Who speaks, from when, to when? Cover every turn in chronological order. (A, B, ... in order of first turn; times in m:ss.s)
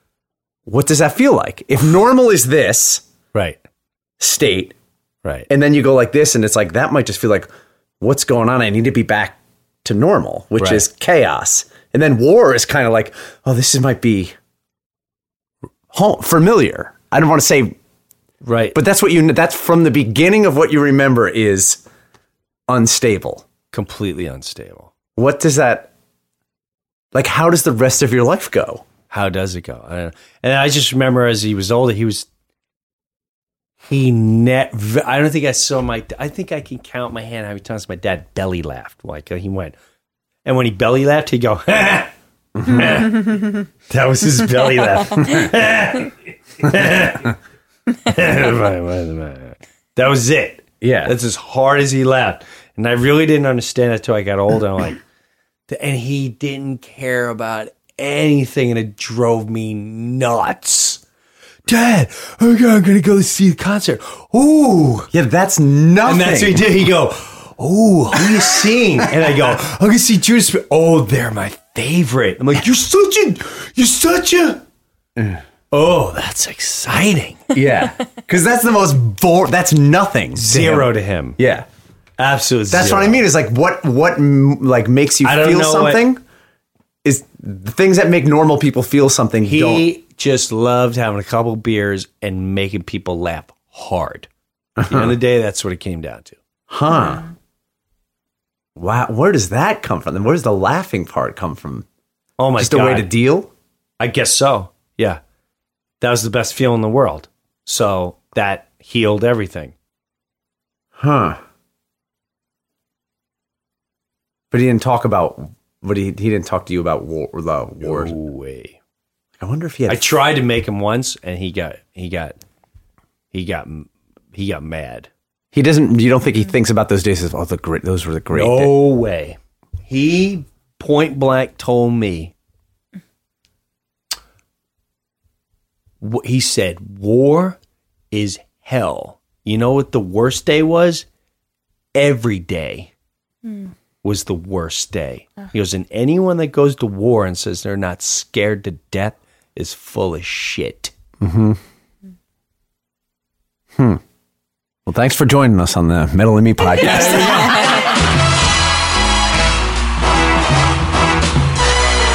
0:00.7-0:03.0 A
0:03.3-0:03.6 B
0:04.2-0:04.8 A
0:05.5-0:07.5 A
0:08.0-0:14.4 A
0:10.6-0:10.9 B
0:15.9-0:17.8 A
0:18.4-0:18.8 B
0:18.7-0:21.8 A
0:22.7-0:23.5 A
0:23.7-0:24.9 B
0:25.2-0:25.9 A
0:27.1-0:28.9 A
0:29.1-0:32.3 B
0:33.9-0:39.8 B
0:40.4-0:42.1 B
0:42.6-0:43.0 A
0:42.7-0:47.4 B
0:47.9-0:55.0 B
0:50.8-0:51.1 A
0:55.7-1:01.0 B
1:01.7-1:05.1 B
1:05.1-1:06.7 A
1:06.0-1:14.6 B
1:15.2-1:15.4 A
1:15.7-1:17.5 B
1:17.5-1:21.7 A
1:20.4-1:21.4 B
1:22.2-1:23.3 B
1:22.7-1:26.2 A
1:25.2-1:26.0 B
1:27.0-1:29.9 A
1:29.4-1:34.3 B
1:34.8-1:35.2 A
1:34.9-1:36.4 B
1:36.7-1:37.3 A
1:38.8-1:41.9 A
1:42.4-1:43.1 B
1:42.6-1:43.5 A
1:44.0-1:45.2 B
1:46.0-1:49.8 B
1:51.0-1:51.4 A
1:54.5-1:58.2 A
1:57.8-1:58.8 B
1:59.4-2:00.1 A
1:59.9-2:02.4 B
2:03.3-2:05.1 B
2:05.5-2:08.7 A
2:08.3-2:12.3 B
2:16.0-2:17.6 B
2:18.1-2:21.1 B
2:21.9-2:22.9 B
2:24.0-2:30.9 B
2:31.2-2:31.6 A
2:33.8-2:34.0 A
2:34.9-2:37.8 A
2:36.8-2:37.9 B